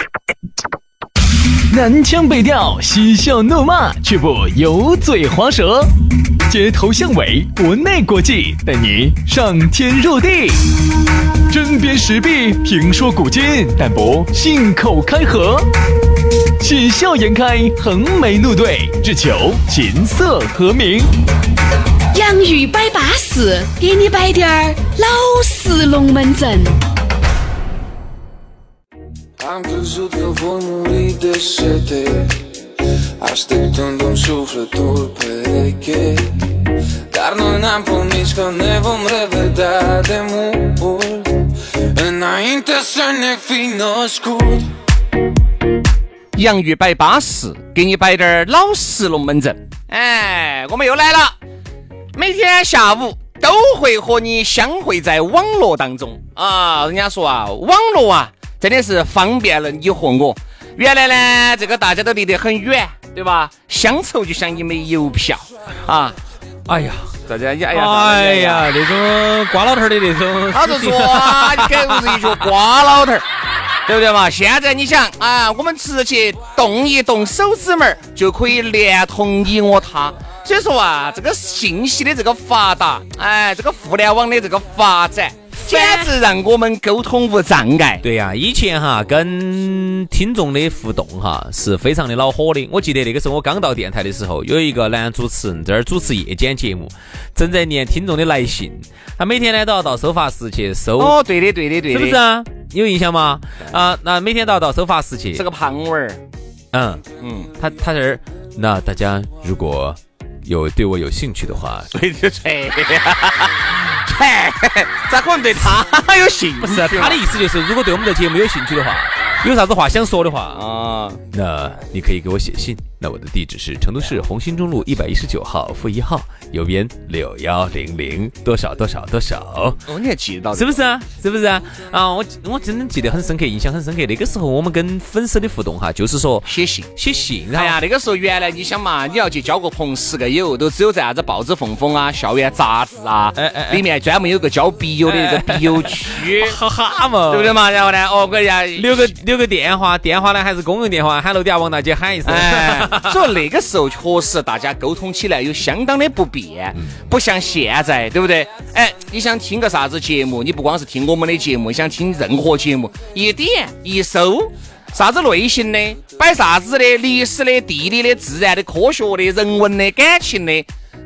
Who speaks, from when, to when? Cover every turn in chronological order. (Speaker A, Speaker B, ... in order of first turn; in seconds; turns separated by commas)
Speaker A: 1.7-5.9, Speaker A: 6.4-10.7, Speaker A: 11.5-15.7, Speaker A: 16.6-21.1, Speaker B: 22.1-26.8, Speaker C: 29.4-32.4, Speaker C: 33.2-44.7, Speaker D: 46.3-51.4, Speaker D: 52.1-66.2, Speaker E: 66.7-67.2, Speaker D: 67.2-68.7, Speaker E: 67.7-72.4, Speaker D: 70.5-73.2, Speaker D: 73.8-88.0, Speaker E: 85.5-86.1, Speaker E: 88.0-101.2, Speaker D: 101.0-102.2, Speaker E: 101.9-105.4, Speaker D: 105.3-106.2, Speaker E: 106.7-107.0, Speaker D: 107.2-107.5, Speaker E: 107.6-111.9, Speaker D: 111.9-117.2, Speaker E: 116.6-120.6, Speaker D: 120.5-121.2, Speaker E: 121.3-129.8, Speaker D: 129.9-130.8, Speaker E: 130.5-137.8, Speaker D: 136.5-136.9, Speaker D: 137.5-146.6, Speaker E: 143.3-143.8, Speaker E: 145.0-147.6, Speaker D: 147.3-149.2, Speaker E: 148.8-153.3, Speaker D: 152.2-170.7